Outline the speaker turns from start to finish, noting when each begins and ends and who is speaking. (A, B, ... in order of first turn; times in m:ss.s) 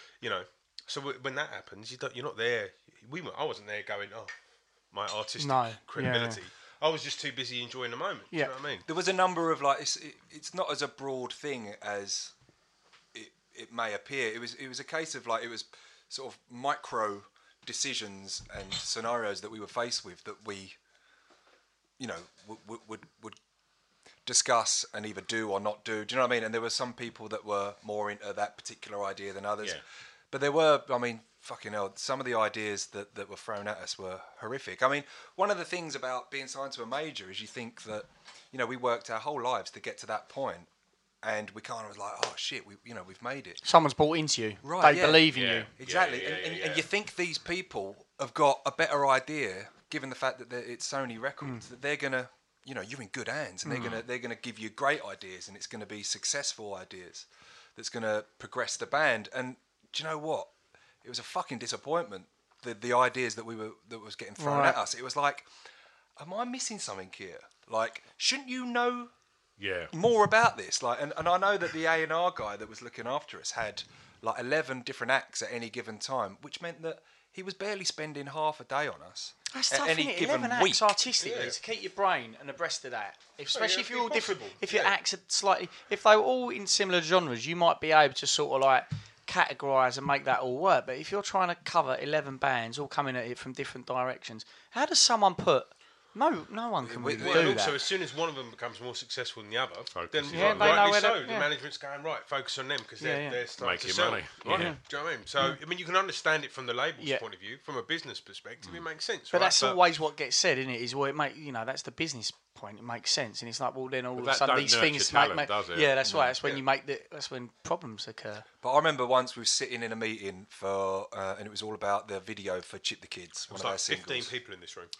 0:00.2-0:04.3 A
0:04.9-0:08.9 A
0:05.4-0:06.4 B
0:08.9-0:12.3 C
0:13.1-0:20.8 C
0:22.0-0:23.4 C
0:24.2-0:40.7 C
0:41.2-0:43.6 C
0:43.6-0:45.7 B
0:44.6-1:00.5 C
0:45.3-0:46.9 D
0:53.6-0:54.0 B
1:01.0-1:05.5 C
1:04.4-1:04.8 B
1:06.2-1:09.1 C
1:09.6-1:09.9 D
1:09.9-1:21.0 C
1:19.5-1:37.8 B
1:21.2-1:21.6 A
1:23.5-1:25.0 A
1:36.8-1:37.9 C
1:37.2-1:49.8 A
1:39.9-1:40.9 D
1:40.3-1:41.5 B
1:43.0-1:43.4 B
1:43.6-1:44.8 D
1:44.5-1:44.8 B
1:49.3-1:58.5 B
1:54.2-1:56.0 D
1:56.1-1:56.3 C
1:58.6-2:04.4 C
2:03.5-2:04.9 A